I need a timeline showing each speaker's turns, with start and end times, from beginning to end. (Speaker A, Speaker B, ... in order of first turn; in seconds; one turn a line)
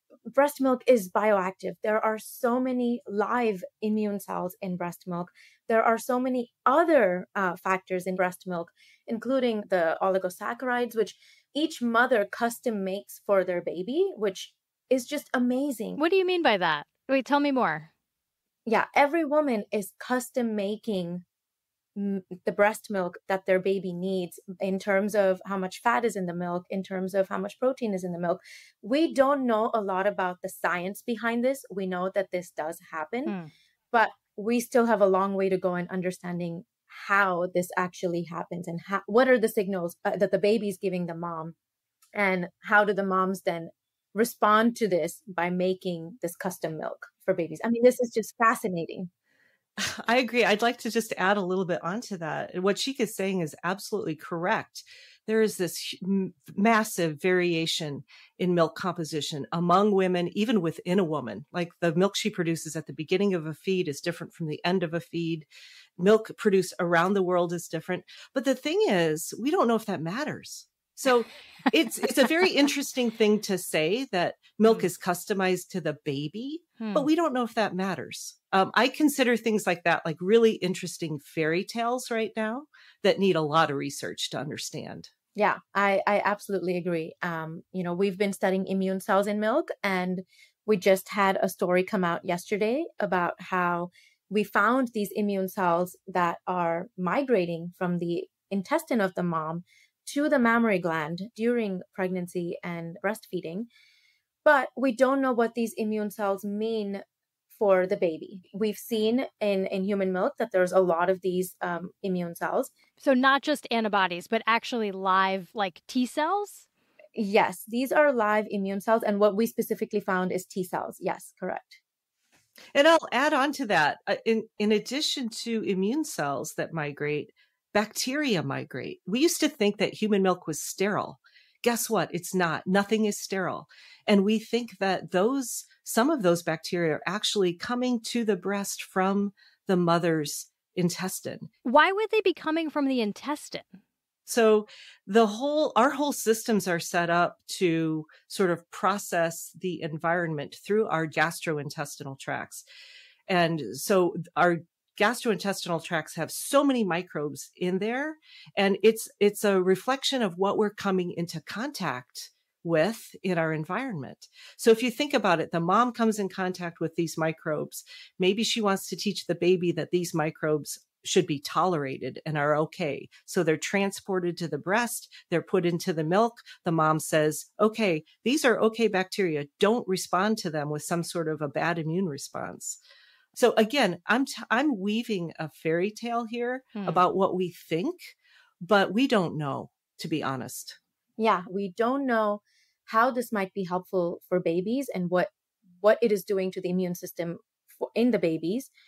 Speaker A: 0.3-16.0
Speaker B: 16.0-17.9
Speaker A: 18.7-21.2
Speaker A: 22.0-33.4
Speaker B: 33.3-33.5
Speaker A: 33.9-41.5
Speaker A: 42.1-49.1
Speaker C: 49.8-65.5
Speaker C: 66.0-85.1
Speaker B: 76.8-77.1
Speaker A: 85.3-103.7
Speaker A: 104.4-112.7
Speaker B: 113.0-116.7
Speaker A: 117.2-121.8
Speaker C: 122.7-141.5
Speaker B: 141.7-143.8
Speaker C: 144.3-152.7
Speaker C: 153.3-182.8
Speaker C: 183.3-190.8
Speaker A: 191.2-198.7